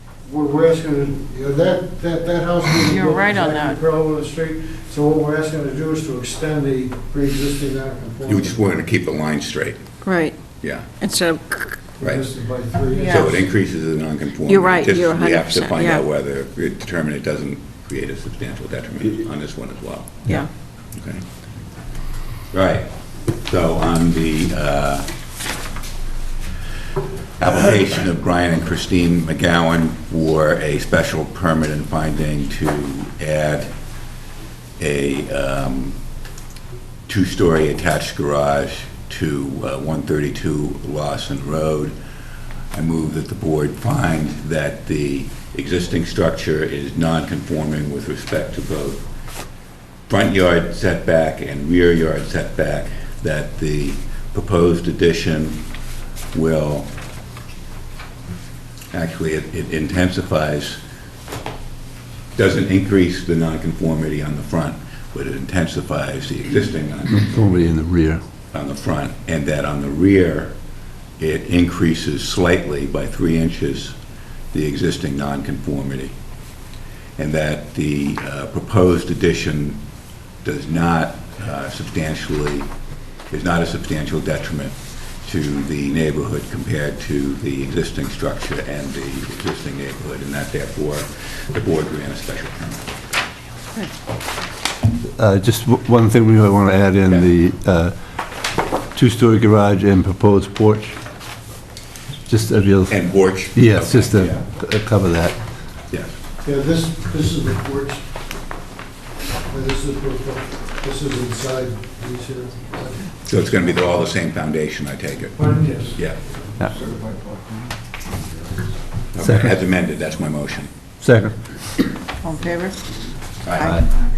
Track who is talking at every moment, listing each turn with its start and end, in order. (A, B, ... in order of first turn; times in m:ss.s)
0:00.3-0:08.9 A
0:02.8-0:03.8 B
0:08.2-0:09.8 C
0:10.0-0:10.4 B
0:10.6-0:10.9 C
0:11.0-0:11.8 B
0:12.0-0:13.5 A
0:12.9-0:13.3 B
0:13.1-0:20.3 C
0:14.5-0:16.0 B
0:20.9-0:21.2 C
0:22.5-0:22.9 C
0:23.4-0:25.1 C
0:27.4-0:33.7 C
0:34.8-0:36.0 C
0:37.1-0:42.0 C
0:42.7-0:49.0 C
0:50.1-0:55.6 C
0:56.3-0:56.9 C
0:58.9-1:00.8 C
1:02.4-1:07.4 C
1:07.1-1:08.2 D
1:08.5-1:10.5 C
1:11.2-1:14.0 C
1:14.5-1:16.1 C
1:17.2-1:19.8 C
1:20.4-1:22.7 C
1:23.3-1:32.9 C
1:35.2-1:37.9 D
1:38.9-1:41.0 D
1:42.3-1:45.4 D
1:42.9-1:44.4 C
1:46.4-1:48.0 A
1:49.5-1:53.8 A
1:53.2-1:55.4 C
1:55.3-1:56.1 A
1:56.7-1:57.4 A
1:59.1-2:00.7 C
1:59.2-1:59.5 D
2:01.0-2:01.4 D
2:02.2-2:02.8 B
2:03.4-2:03.8 C